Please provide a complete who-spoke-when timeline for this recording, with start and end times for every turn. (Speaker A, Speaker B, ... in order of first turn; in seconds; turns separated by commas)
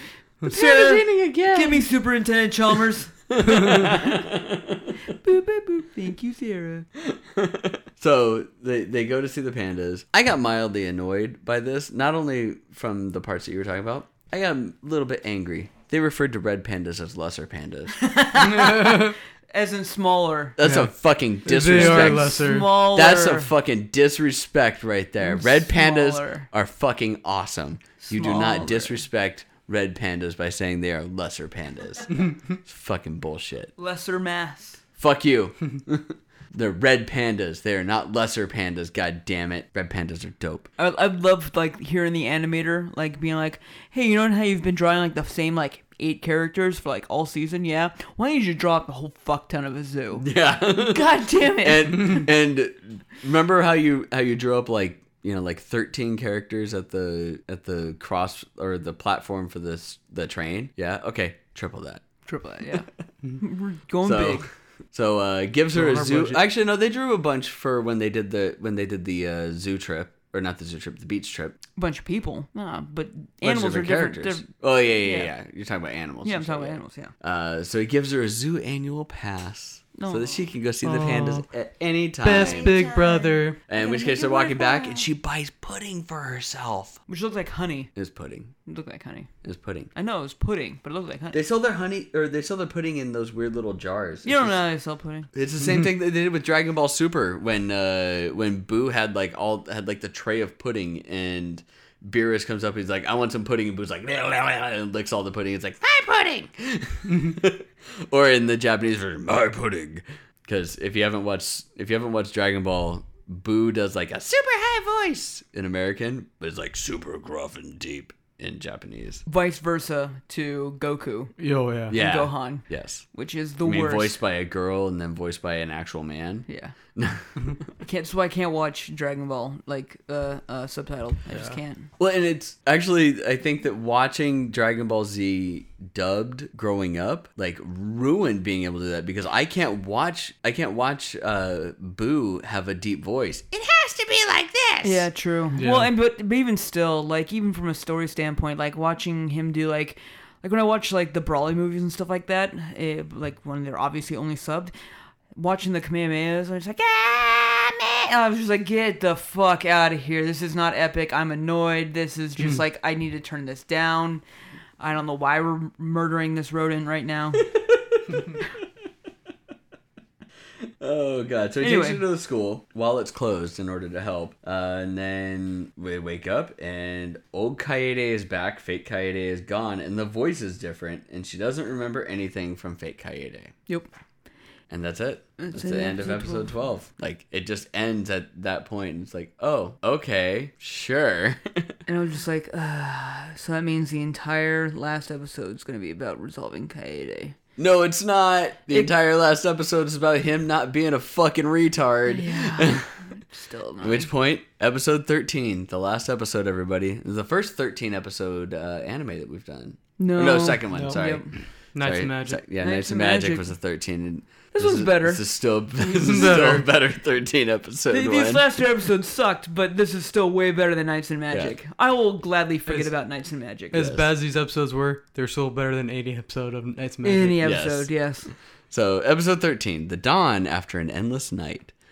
Speaker A: 0.4-4.3, Speaker B: 0.4-1.9, Speaker B: 3.3-4.9, Speaker A: 5.0-6.9, Speaker B: 7.0-18.1, Speaker A: 18.0-20.6, Speaker C: 18.5-19.1, Speaker B: 20.6-33.7, Speaker C: 20.6-20.9, Speaker C: 21.4-22.7, Speaker A: 21.7-23.5, Speaker A: 25.2-26.5, Speaker A: 28.0-29.0, Speaker A: 33.8-34.8, Speaker B: 35.0-40.7, Speaker A: 40.8-52.3, Speaker B: 50.2-62.0, Speaker A: 62.3-62.9, Speaker A: 63.4-64.5, Speaker B: 64.0-71.6, Speaker C: 65.7-66.4, Speaker A: 71.8-75.3, Speaker B: 73.4-82.8, Speaker A: 76.2-77.1, Speaker A: 80.0-80.4, Speaker C: 80.8-81.5, Speaker C: 82.2-83.6, Speaker A: 82.3-85.1, Speaker B: 83.7-87.0, Speaker A: 87.1-87.9, Speaker B: 87.9-88.5, Speaker A: 88.7-89.3, Speaker B: 89.4-89.9, Speaker A: 89.9-91.4, Speaker B: 91.3-94.6, Speaker A: 94.2-95.3, Speaker B: 95.3-119.2, Speaker A: 119.3-121.3, Speaker C: 121.4-122.0, Speaker B: 121.9-123.0, Speaker A: 121.9-124.2, Speaker B: 123.6-127.6, Speaker A: 126.5-126.7, Speaker A: 127.8-131.9, Speaker B: 132.0-145.1, Speaker A: 144.8-154.7, Speaker C: 145.6-145.9, Speaker A: 155.3-164.2, Speaker A: 164.8-167.4, Speaker B: 167.4-168.4, Speaker B: 170.8-183.5, Speaker A: 171.6-172.0, Speaker B: 184.7-191.8, Speaker A: 185.4-186.5, Speaker A: 191.9-197.3, Speaker B: 197.6-202.9, Speaker A: 202.1-204.1, Speaker B: 203.8-218.4, Speaker A: 210.0-211.3, Speaker C: 210.7-211.0, Speaker C: 211.7-212.4, Speaker A: 212.6-213.5, Speaker A: 214.5-215.2, Speaker C: 215.9-216.7, Speaker A: 217.9-224.0, Speaker C: 223.7-227.4, Speaker A: 227.0-228.3, Speaker B: 227.4-227.9, Speaker B: 228.7-231.7